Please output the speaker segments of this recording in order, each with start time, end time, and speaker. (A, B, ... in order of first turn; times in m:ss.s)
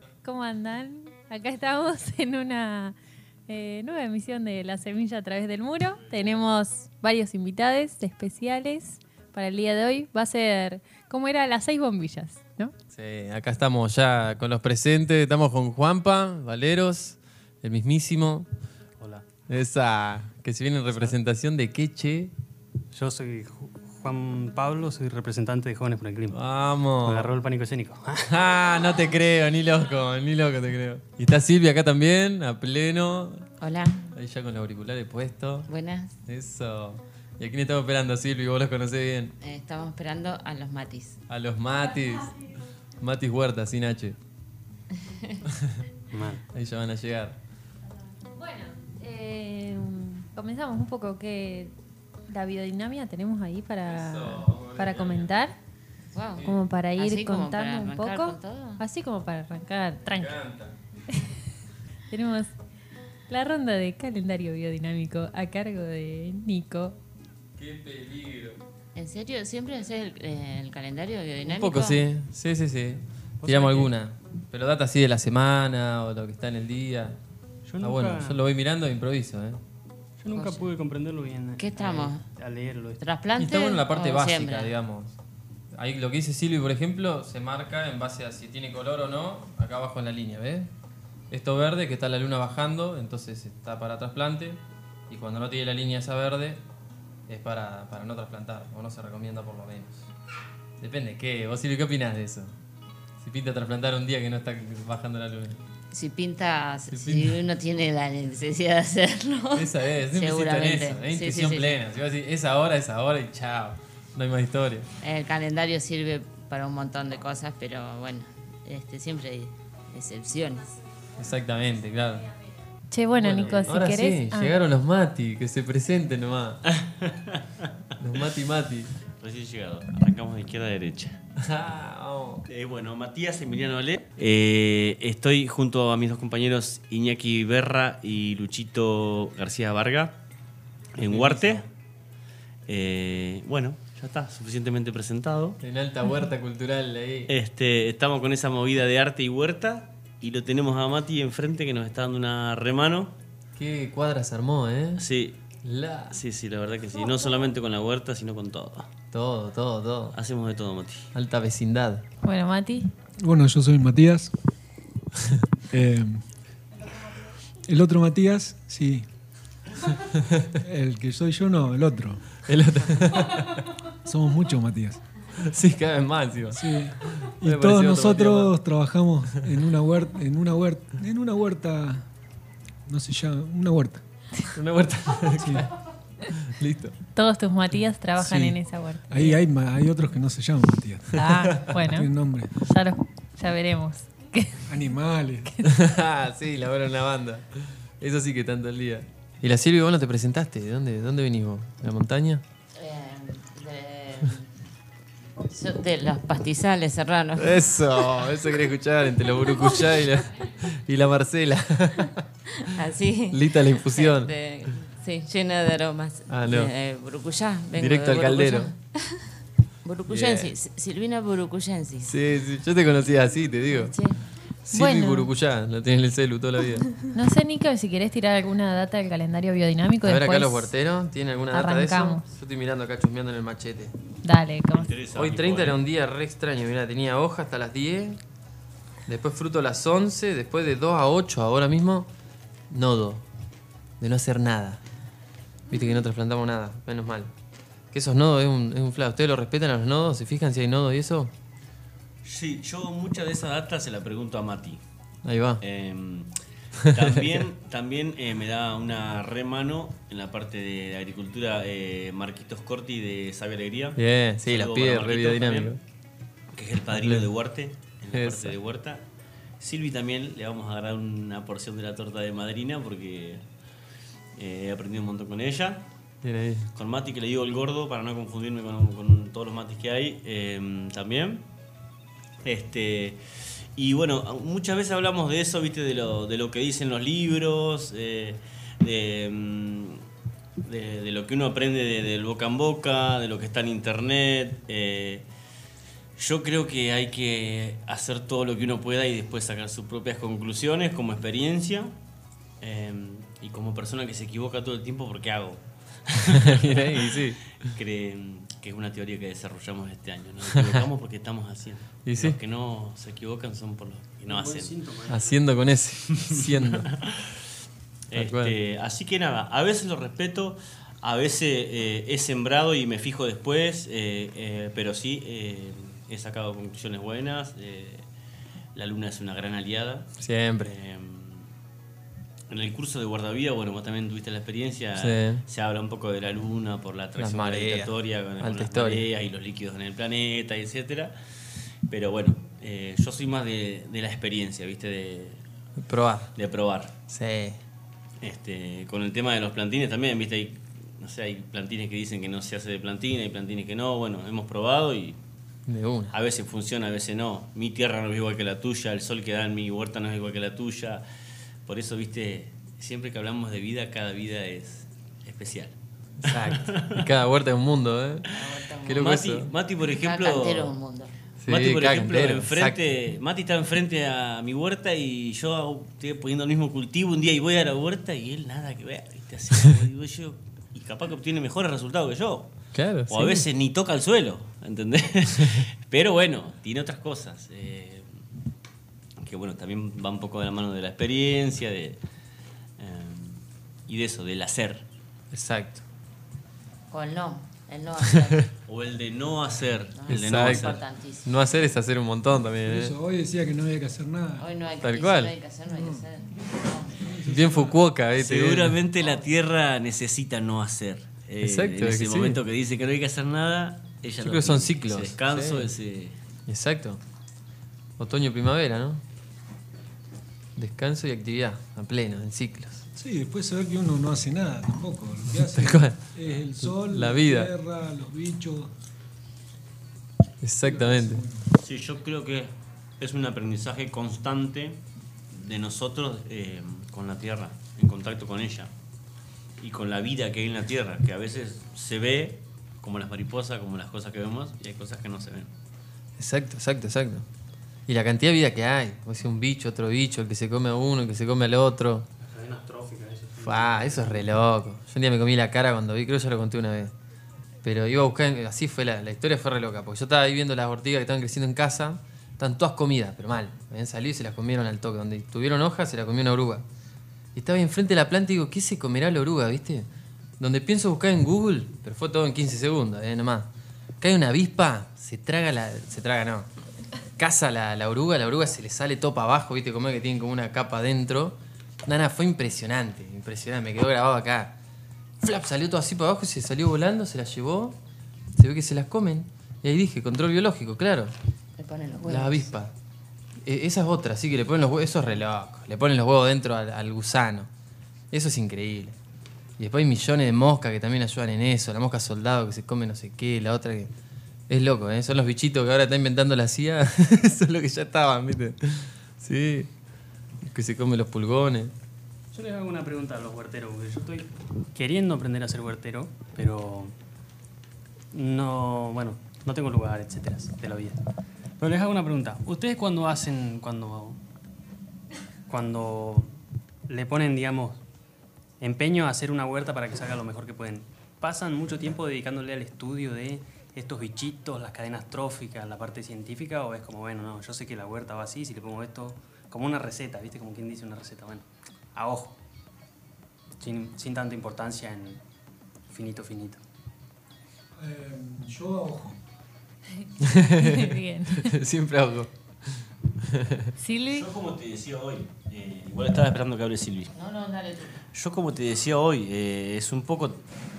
0:00.2-0:02.9 A
0:03.5-0:12.7 A
0:12.9-0:18.5 B
0:19.5-0:22.3 B
0:22.9-0:26.4 C
0:26.3-0:27.3 B
0:27.0-0:28.3 C
0:28.2-0:33.5 B
0:33.6-0:34.1 D
0:34.1-0:35.7 B
0:35.7-0:36.1 D
0:36.2-0:39.3 B
0:39.4-0:41.2 D
0:41.3-0:42.4 B
0:43.0-0:44.2 B
0:45.0-0:45.4 D
0:45.5-0:45.8 B
0:46.1-0:46.4 C
0:46.5-0:47.4 B
0:48.3-0:51.7 A
0:52.3-0:55.5 A
0:53.8-0:55.3 B
0:56.1-0:58.8 D
0:56.4-1:00.4 A
1:00.1-1:00.7 B
1:02.1-1:02.5 A
1:03.3-1:07.0 A
1:07.6-1:08.6 B
1:08.9-1:12.0 D
1:11.4-1:17.2 B
1:13.4-1:13.9 C
1:17.7-1:18.4 C
1:17.8-1:19.6 B
1:20.2-1:23.0 C
1:20.3-1:20.6 D
1:21.6-1:22.2 D
1:23.0-1:24.7 D
1:23.4-1:25.2 B
1:25.7-1:30.7 B
1:31.3-1:36.6 B
1:37.3-1:40.1 B
1:40.8-1:42.5 B
1:43.2-1:45.6 B
1:45.9-1:51.8 D
1:46.9-1:47.4 B
1:49.5-1:54.9 B
1:55.0-2:00.8 D
2:01.2-2:02.3 B
2:02.9-2:04.6 A
2:03.2-2:06.6 B
2:06.7-2:07.7 E
2:08.0-2:08.9 B
2:09.2-2:11.2 E
2:11.4-2:12.4 B
2:12.5-2:20.2 E
2:20.9-2:21.6 E
2:21.0-2:21.6 B
2:22.7-2:25.6 E
2:25.6-2:27.3 B
2:27.3-2:33.1 E
2:33.6-2:35.0 B
2:35.0-2:35.4 E
2:35.6-2:36.2 B
2:36.1-2:38.9 E
2:39.1-2:40.1 B
2:40.1-2:41.1 E
2:41.1-2:42.0 B
2:42.2-2:42.9 A
2:43.2-2:44.3 F
2:45.7-2:46.2 F
2:47.7-2:49.1 F
2:50.5-2:52.4 F
2:52.4-2:53.6 B
2:54.0-2:55.0 F
2:55.4-2:58.5 B
2:56.5-3:02.0 F
3:02.9-3:04.0 F
3:04.5-3:05.7 B
3:05.4-3:05.7 F
3:06.4-3:06.9 B
3:07.1-3:09.4 A
3:08.2-3:08.6 B
3:09.1-3:12.6 F
3:11.1-3:12.1 A
3:11.4-3:11.7 B
3:12.6-3:14.6 A
3:14.7-3:15.6 F
3:15.6-3:22.4 B
3:22.8-3:24.5 D
3:25.4-3:27.7 D
3:27.4-3:32.2 B
3:32.6-3:39.3 D
3:33.3-3:34.3 B
3:36.3-3:36.7 B
3:37.7-3:38.7 B
3:39.8-3:42.1 D
3:40.1-3:40.5 B
3:42.0-3:43.9 B
3:43.7-3:44.2 D
3:44.7-3:47.0 B
3:44.7-3:45.3 A
3:47.1-3:50.7 A
3:50.0-3:53.9 B
3:51.5-3:52.2 A
3:54.2-3:54.9 A
3:54.7-3:55.8 E
3:55.1-3:58.2 B
3:59.0-4:02.1 B
4:02.7-4:03.2 B
4:04.0-4:04.8 B
4:05.7-4:07.3 B
4:07.9-4:11.3 B
4:12.2-4:14.8 E
4:15.2-4:15.6 B
4:15.6-4:16.3 E
4:16.8-4:17.4 B
4:16.8-4:25.7 E
4:24.0-4:25.8 B
4:26.5-4:29.0 E
4:26.9-4:27.3 B
4:28.1-4:28.6 B
4:29.6-4:33.4 E
4:34.4-4:35.8 E
4:36.2-4:36.7 B
4:36.8-4:41.4 E
4:42.4-4:43.2 E
4:43.8-4:50.0 E
4:50.6-4:55.2 E
4:56.2-5:01.9 E
5:02.6-5:14.8 E
5:06.3-5:07.4 B
5:10.6-5:10.8 B
5:12.0-5:12.4 B
5:14.2-5:15.3 C
5:15.1-5:16.9 B
5:16.1-5:17.4 E
5:18.1-5:28.0 E
5:18.1-5:18.6 B
5:28.7-5:30.1 E
5:30.2-5:30.7 B
5:30.6-5:31.5 E
5:32.5-5:41.1 E
5:34.9-5:35.4 B
5:37.2-5:39.1 B
5:41.9-5:45.4 E
5:45.8-5:46.3 B
5:46.4-5:46.9 E
5:47.1-5:47.6 B
5:48.2-5:55.2 E
5:55.7-5:56.1 B
5:56.1-6:01.0 E
6:01.6-6:05.7 E
6:06.2-6:08.3 B
6:06.3-6:07.0 E
6:08.3-6:09.0 D
6:08.8-6:09.5 B
6:08.9-6:10.7 E
6:09.9-6:11.1 D
6:11.4-6:12.8 B
6:11.5-6:22.5 E
6:22.7-6:23.5 B
6:23.1-6:28.1 E
6:25.3-6:25.6 B
6:29.2-6:32.0 E
6:32.8-6:34.8 E
6:35.3-6:35.8 B
6:36.9-6:38.5 D
6:38.7-6:40.8 E
6:39.9-6:41.3 D
6:40.1-6:42.9 B
6:42.6-6:44.4 F
6:44.4-6:47.0 D
6:44.8-6:45.3 B
6:47.0-6:47.8 F
6:47.2-6:48.8 B
6:48.2-6:56.2 E
6:51.4-6:52.4 B
6:54.2-6:55.7 B
6:56.5-6:57.0 B
6:58.0-6:59.0 B
7:00.6-7:02.8 B
7:02.9-7:08.7 F
7:05.3-7:06.0 B
7:06.6-7:07.5 B
7:10.4-7:11.2 B
7:10.6-7:11.5 F
7:11.5-7:14.8 E
7:15.3-7:18.7 E
7:19.6-7:25.5 E
7:26.2-7:27.2 B
7:27.9-7:32.1 B
7:32.3-7:34.2 C
7:33.4-7:36.9 B
7:37.6-7:46.6 B
7:47.3-7:49.9 B
7:50.4-7:56.5 B
7:57.2-8:04.5 B
8:05.2-8:07.8 B
8:08.4-8:11.1 B
8:11.6-8:12.5 D
8:12.0-8:12.7 B
8:13.4-8:17.5 B
8:18.1-8:19.0 B
8:19.6-8:23.9 B
8:24.5-8:29.7 B
8:30.4-8:31.7 B
8:32.3-8:36.9 C
8:38.1-8:41.0 C
8:41.6-8:44.2 C
8:45.5-8:46.3 C
8:46.9-8:47.8 C
8:48.6-9:02.4 C
9:03.6-9:05.2 C
9:05.9-9:06.6 C
9:07.8-9:09.2 F
9:10.0-9:11.6 A
9:10.2-9:13.7 B
9:13.8-9:14.3 A
9:14.1-9:17.1 E
9:17.1-9:18.0 D
9:18.1-9:20.4 E